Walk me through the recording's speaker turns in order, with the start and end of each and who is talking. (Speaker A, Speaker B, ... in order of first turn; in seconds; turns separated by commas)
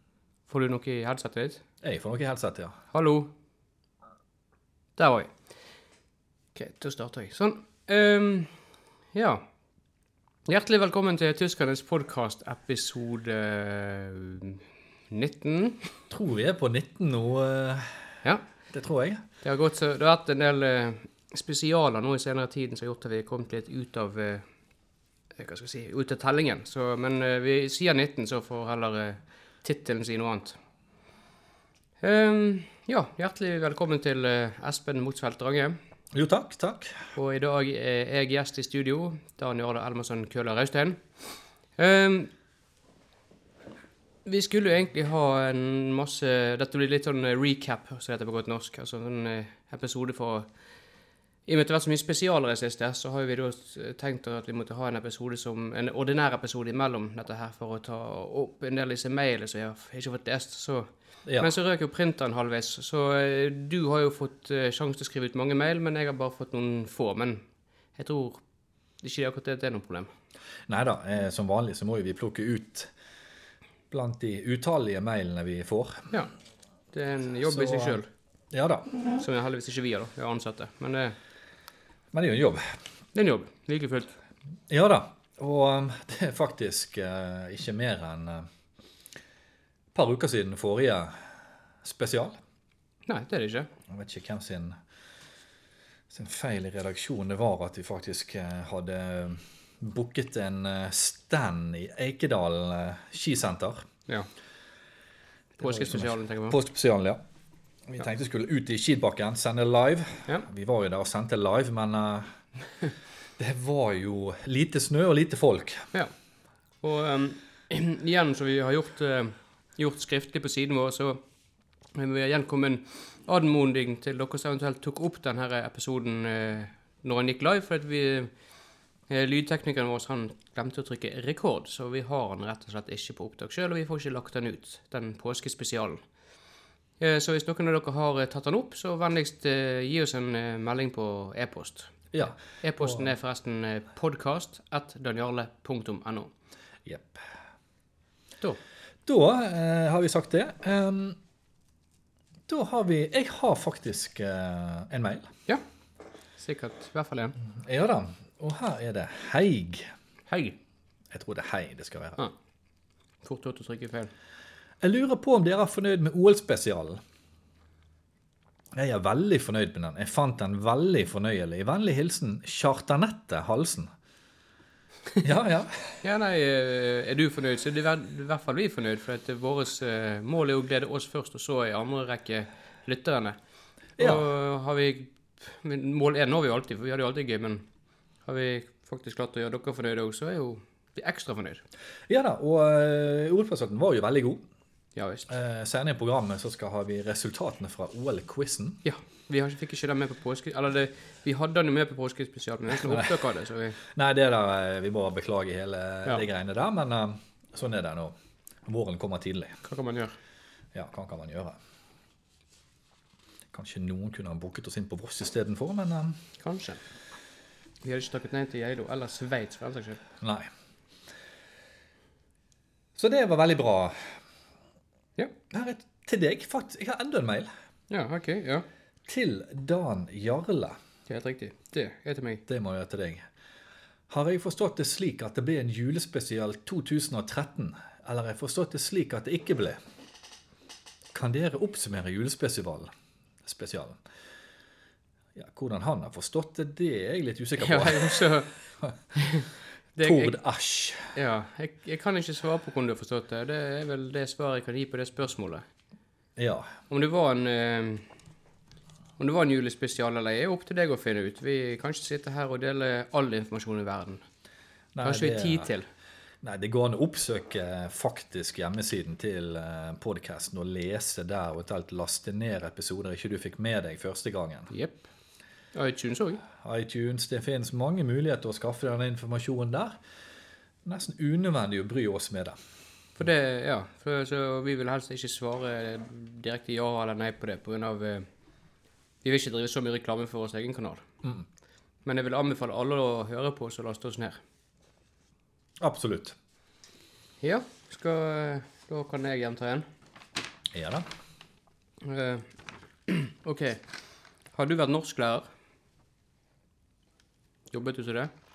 Speaker A: 0.5-1.6, Speaker B: 1.8-2.8, Speaker A: 2.9-3.3, Speaker A: 5.0-5.3, Speaker A: 6.5-8.6, Speaker A: 9.1-9.4, Speaker A: 10.5-15.9, Speaker B: 16.1-18.1, Speaker B: 18.7-19.2, Speaker A: 19.4-24.5, Speaker A: 25.4-30.6, Speaker A: 32.0-35.8, Speaker B: 36.1-37.0, Speaker A: 37.1-41.0, Speaker A: 41.8-42.3, Speaker A: 44.2-50.5, Speaker A: 51.5-67.4, Speaker B: 61.3-61.5, Speaker A: 68.0-68.4, Speaker A: 69.0-70.1, Speaker B: 70.7-72.9, Speaker B: 73.9-76.1, Speaker A: 76.9-78.1, Speaker B: 77.5-78.0, Speaker B: 78.5-78.9, Speaker A: 79.1-81.2, Speaker B: 82.1-82.7, Speaker A: 83.1-84.1, Speaker B: 84.7-88.5, Speaker B: 89.9-91.2, Speaker B: 91.8-92.4, Speaker A: 93.1-93.7, Speaker B: 93.9-94.8, Speaker B: 96.1-103.9, Speaker A: 105.6-106.6, Speaker B: 105.6-107.2, Speaker B: 107.9-112.3, Speaker B: 113.4-115.9, Speaker A: 116.8-121.2, Speaker A: 122.0-128.3, Speaker A: 129.1-136.0, Speaker A: 137.0-141.9, Speaker B: 142.1-143.1, Speaker A: 142.6-146.3, Speaker B: 146.8-147.3, Speaker B: 149.1-151.2, Speaker B: 152.5-155.3, Speaker A: 156.4-157.4, Speaker B: 157.4-159.9, Speaker A: 160.3-160.6, Speaker B: 161.1-162.2, Speaker A: 163.2-164.1, Speaker B: 164.8-167.0, Speaker B: 168.7-173.9, Speaker B: 175.2-176.0, Speaker A: 176.0-183.4, Speaker B: 184.0-184.3, Speaker A: 184.0-187.6, Speaker A: 188.3-191.6, Speaker B: 192.1-194.4, Speaker A: 195.0-195.3, Speaker B: 195.3-198.8, Speaker A: 198.8-203.8, Speaker B: 202.8-203.1, Speaker B: 203.8-209.6, Speaker A: 209.6-210.2, Speaker B: 210.7-211.6, Speaker B: 213.5-216.2, Speaker A: 216.4-216.8, Speaker A: 217.8-220.0, Speaker B: 220.2-220.5, Speaker B: 223.0-224.2, Speaker B: 225.5-227.5, Speaker A: 227.9-228.7, Speaker B: 229.1-230.8, Speaker A: 231.1-232.4, Speaker B: 232.5-233.3, Speaker B: 234.1-239.8, Speaker B: 241.1-242.9, Speaker B: 243.4-244.0, Speaker B: 245.4-248.9, Speaker A: 247.6-248.5, Speaker A: 249.2-250.4, Speaker B: 250.0-251.2, Speaker A: 251.2-255.7, Speaker B: 256.4-256.8, Speaker A: 256.9-258.1, Speaker A: 259.2-264.2, Speaker B: 264.9-265.7, Speaker A: 265.0-265.9, Speaker B: 266.4-274.7, Speaker A: 274.7-275.1, Speaker A: 275.7-276.4, Speaker B: 276.6-280.0, Speaker B: 280.8-282.6, Speaker A: 283.2-288.3, Speaker A: 289.2-291.0, Speaker A: 292.1-294.4, Speaker B: 295.8-296.4, Speaker A: 297.4-299.9, Speaker B: 300.7-301.1, Speaker A: 302.0-302.5, Speaker A: 303.1-303.8, Speaker A: 304.5-305.5, Speaker A: 307.7-308.3